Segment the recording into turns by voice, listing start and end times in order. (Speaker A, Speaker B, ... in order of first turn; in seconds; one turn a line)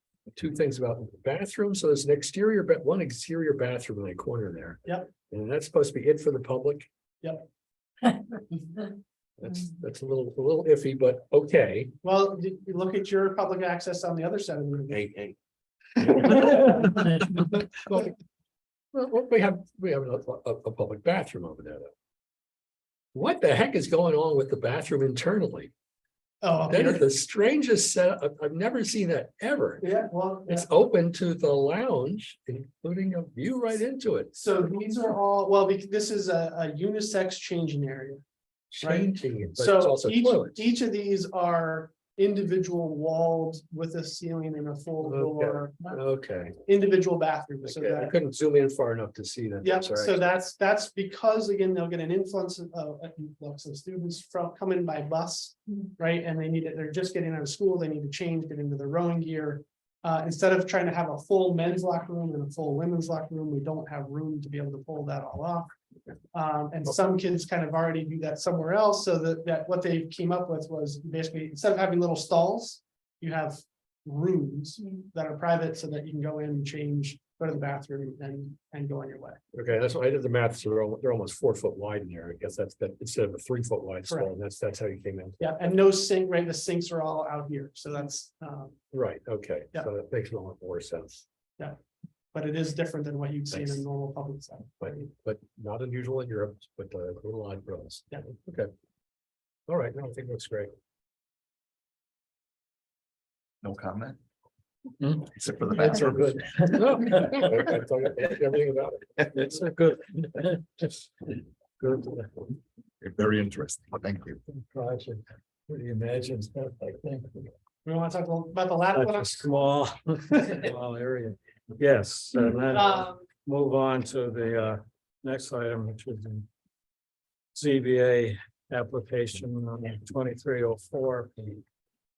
Speaker A: 0.3-6.9
Speaker B: 7.2-7.5
Speaker A: 9.4-11.9
Speaker B: 12.0-15.1
Speaker B: 16.1-17.0
Speaker A: 16.3-16.7
Speaker A: 17.7-18.1
Speaker A: 18.9-21.9
Speaker A: 23.1-25.7
Speaker B: 26.4-27.1
Speaker A: 26.7-29.9
Speaker B: 29.8-30.7
Speaker A: 30.5-34.4
Speaker B: 34.3-38.2
Speaker A: 38.7-40.7
Speaker B: 38.8-46.0
Speaker A: 45.0-46.6
Speaker B: 46.6-48.1
Speaker A: 47.6-50.2
Speaker B: 49.6-65.7
Speaker B: 66.3-79.4
Speaker A: 79.5-85.4
Speaker B: 85.4-88.8
Speaker A: 88.9-91.2
Speaker B: 92.3-95.1
Speaker A: 93.5-93.8
Speaker A: 94.8-98.7
Speaker A: 99.7-100.7
Speaker C: 103.6-104.2
Speaker C: 105.2-106.6
Speaker A: 105.7-109.2
Speaker D: 106.6-107.4
Speaker D: 109.3-112.3
Speaker C: 113.0-114.4
Speaker D: 114.5-117.5
Speaker B: 117.8-119.5
Speaker D: 118.9-126.5
Speaker B: 122.7-123.2
Speaker D: 127.5-131.6